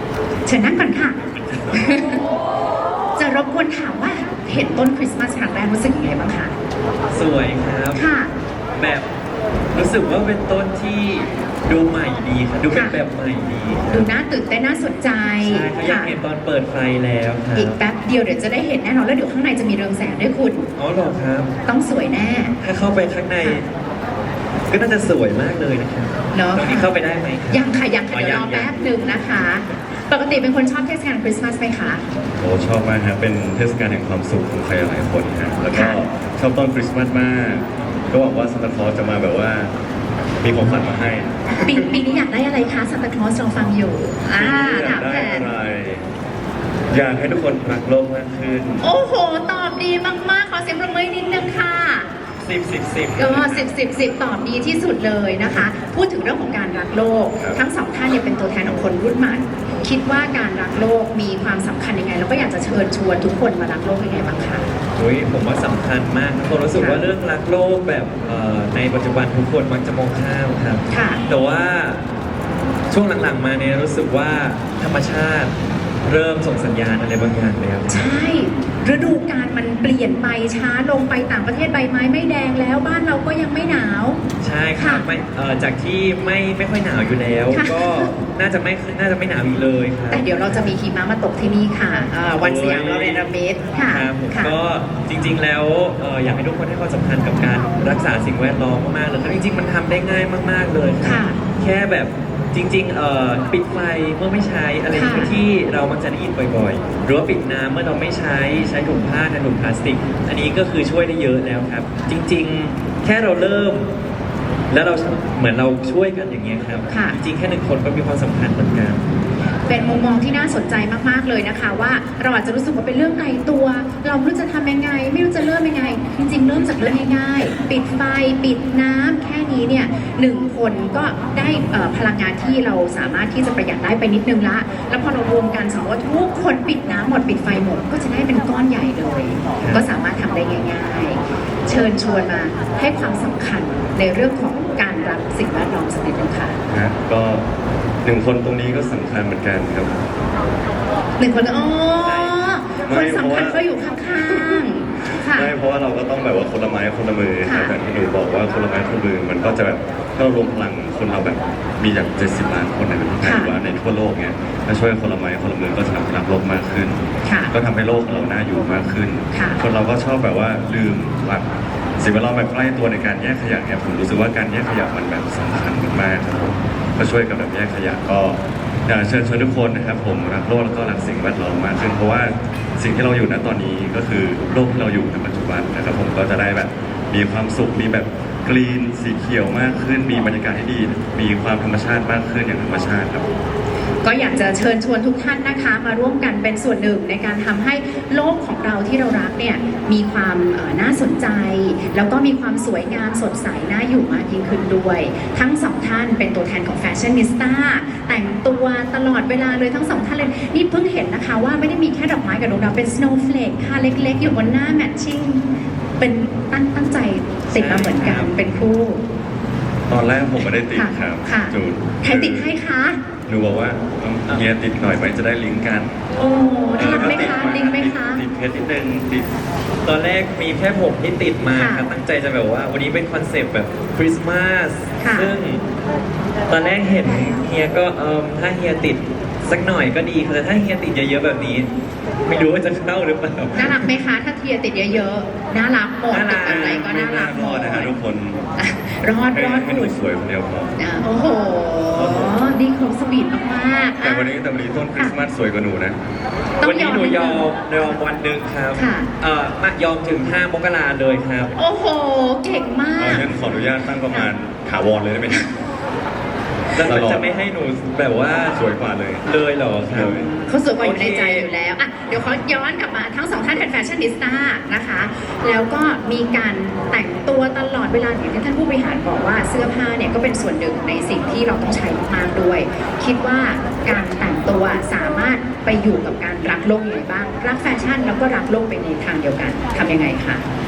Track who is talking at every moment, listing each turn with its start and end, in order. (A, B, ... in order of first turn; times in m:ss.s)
0:00.4-0:02.2 A
0:01.5-0:01.8 B
0:03.2-0:06.6 A
0:07.1-0:08.0 B
0:08.0-0:08.3 A
0:08.8-0:09.0 B
0:09.7-0:14.1 B
0:12.7-0:13.0 A
0:13.9-0:16.1 A
0:15.4-0:17.8 B
0:17.5-0:20.7 A
0:20.8-0:21.5 B
0:21.7-0:22.6 A
0:22.6-0:23.7 B
0:24.7-0:28.8 B
0:26.3-0:26.9 A
0:27.5-0:32.0 A
0:32.4-0:39.7 C
0:35.7-0:36.0 A
0:40.4-0:41.8 C
0:41.6-0:45.5 A
0:44.4-0:46.1 C
0:46.9-0:48.8 C
0:48.8-0:52.1 A
0:52.4-0:53.7 B
0:53.2-1:04.7 A
1:05.0-1:12.0 B
1:06.8-1:07.0 A
1:10.9-1:11.2 A
1:12.9-1:15.5 B
1:16.0-1:18.1 B
1:17.9-1:24.2 A
1:24.4-1:30.7 B
1:24.8-1:25.1 A
1:27.5-1:28.2 A
1:30.1-1:34.6 A
1:32.4-1:33.2 B
1:33.9-1:53.9 B
1:41.0-1:41.4 A
1:44.9-1:45.3 A
1:54.7-1:59.0 B
1:56.9-1:57.2 A
1:59.7-2:26.6 A
2:19.6-2:19.8 B
2:26.7-2:27.5 C
2:28.0-2:30.0 C
2:31.2-2:35.5 A
2:32.0-2:32.6 B
2:32.8-2:33.6 C
2:34.1-2:51.5 C
2:37.4-2:37.8 A
2:43.2-2:43.6 A
2:47.2-2:47.5 A
2:49.3-2:49.6 A
2:52.0-3:13.2 C
3:14.0-3:35.4 A
3:36.0-3:39.0 A
3:37.5-3:38.3 B
3:39.9-3:42.5 C
3:40.7-3:43.0 A
3:43.3-3:46.0 C
3:46.2-3:48.2 A
3:46.8-3:49.3 C
3:46.8-3:47.5 B
3:49.8-3:55.6 B
3:51.6-3:51.9 A
3:55.0-3:55.3 A
3:56.5-4:01.7 B
4:02.2-4:03.9 B
4:03.6-4:07.9 A
4:06.1-4:06.9 B
4:06.5-4:08.4 C
4:08.6-4:10.0 A
4:09.3-4:10.8 C
4:10.8-4:14.4 A
4:11.9-4:12.4 C
4:14.0-4:16.0 C
4:16.6-4:18.0 A
4:16.6-4:21.5 B
4:18.7-4:19.1 A
4:21.6-4:23.6 A
4:23.0-4:25.5 C
4:26.7-4:28.6 B
4:26.8-4:27.3 C
4:28.5-4:29.4 C
4:29.2-4:31.5 B
4:29.9-4:30.3 C
4:30.4-4:50.4 A